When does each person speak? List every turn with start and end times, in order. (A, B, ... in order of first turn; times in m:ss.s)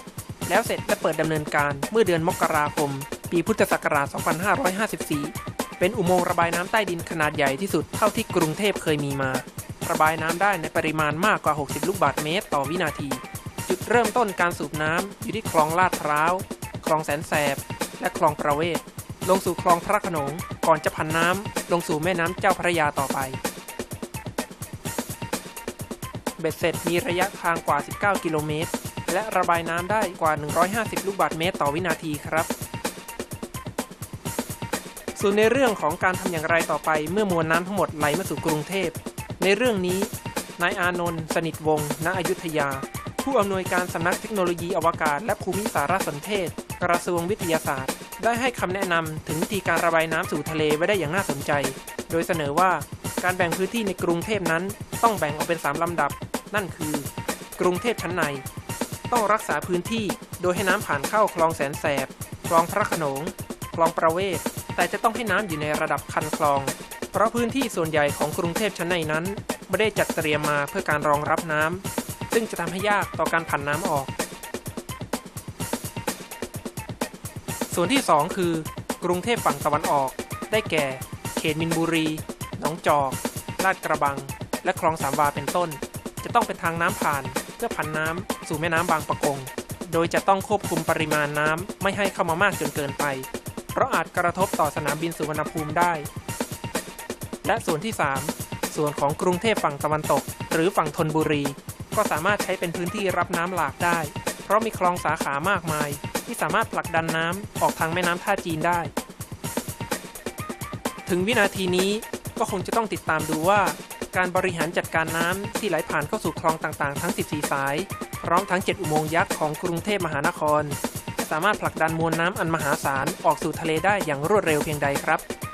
0:00.4-0:23.4 A
0:26.4-0:32.5 A
0:35.1-0:58.4 A
0:59.1-1:14.1 A
1:17.7-1:36.1 A
1:37.4-1:48.9 A
1:51.0-2:05.2 A